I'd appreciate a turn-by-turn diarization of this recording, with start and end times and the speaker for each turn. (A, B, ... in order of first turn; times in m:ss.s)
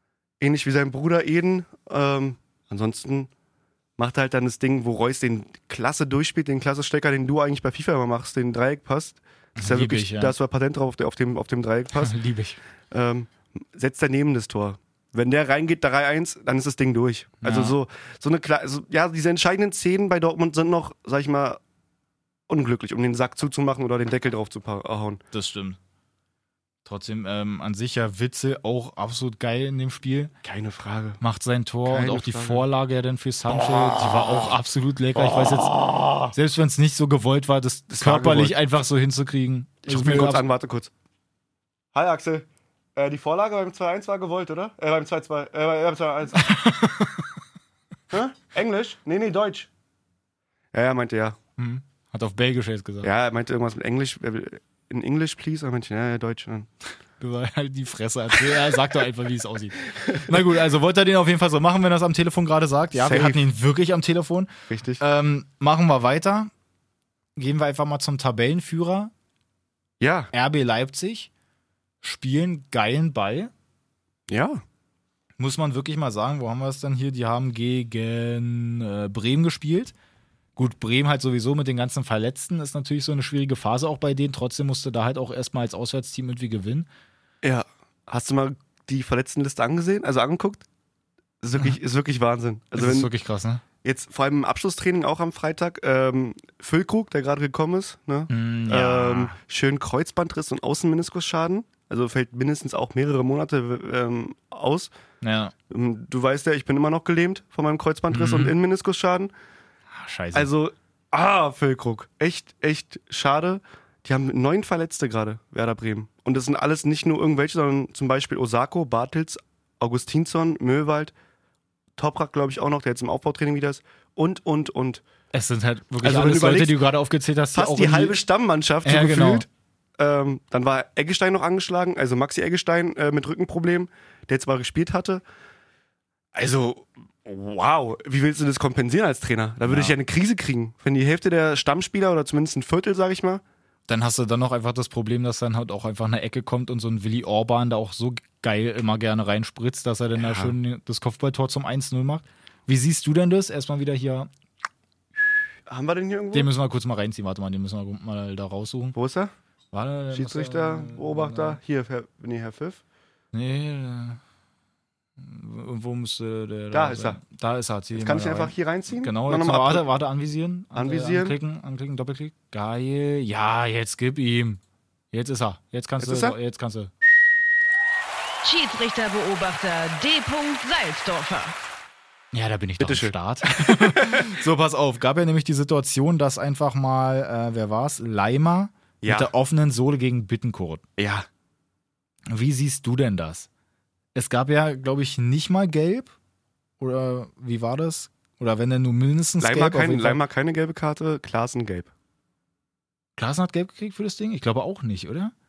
0:00.4-0:03.3 A
0:04.0-0:12.2 A
0:09.6-0:10.3 B
0:12.0-0:12.6 B
0:12.9-0:21.6 A
0:17.4-0:17.8 B
0:22.5-0:25.2 A
0:25.3-0:25.8 B
0:26.8-0:30.3 B
0:30.4-0:31.2 A
0:31.2-0:40.4 B
0:31.9-0:32.7 A
0:33.7-0:34.4 A
0:35.2-0:36.3 A
0:37.9-0:38.6 A
0:39.9-0:40.9 A
0:41.9-0:46.5 A
0:46.4-0:47.3 B
0:48.1-0:49.7 A
0:50.7-0:51.4 A
0:51.6-0:53.1 B
0:53.0-0:56.7 A
0:57.2-1:06.5 B
0:59.9-1:00.4 A
1:03.0-1:03.4 A
1:04.7-1:05.0 A
1:07.4-1:09.1 B
1:10.0-1:10.3 A
1:10.3-1:11.3 B
1:12.0-1:13.5 B
1:14.3-1:14.6 A
1:15.4-1:19.9 B
1:20.6-1:26.9 B
1:27.4-1:30.6 A
1:31.4-1:33.1 A
1:32.8-1:33.6 B
1:33.8-1:44.9 A
1:38.3-1:39.4 B
1:45.2-1:45.5 B
1:45.7-1:49.3 A
1:48.1-1:48.6 B
1:50.0-1:50.5 B
1:50.3-2:01.1 A
2:02.0-2:05.0 A
2:05.3-2:08.2 B
2:06.0-2:06.8 A
2:07.5-2:09.5 A
2:08.8-2:09.5 B
2:10.0-2:15.2 A
2:16.3-2:23.4 A
2:19.7-2:20.0 B
2:23.9-2:34.3 B
2:30.2-2:30.5 A
2:35.7-2:36.5 A
2:36.3-2:39.0 B
2:39.0-2:39.3 A
2:39.7-2:41.6 B
2:40.1-2:42.8 A
2:43.3-2:44.2 B
2:45.2-2:54.6 B
2:46.7-2:47.2 A
2:48.0-2:49.9 A
2:50.7-2:51.4 A
2:55.1-2:56.9 B
2:56.0-2:56.4 A
2:58.4-3:01.6 C
3:02.3-3:10.8 B
3:02.8-3:04.3 A
3:09.0-3:09.3 A
3:11.0-3:11.3 A
3:12.3-3:13.5 B
3:14.2-3:16.1 B
3:16.8-3:20.2 B
3:19.4-3:21.9 A
3:23.2-3:25.3 B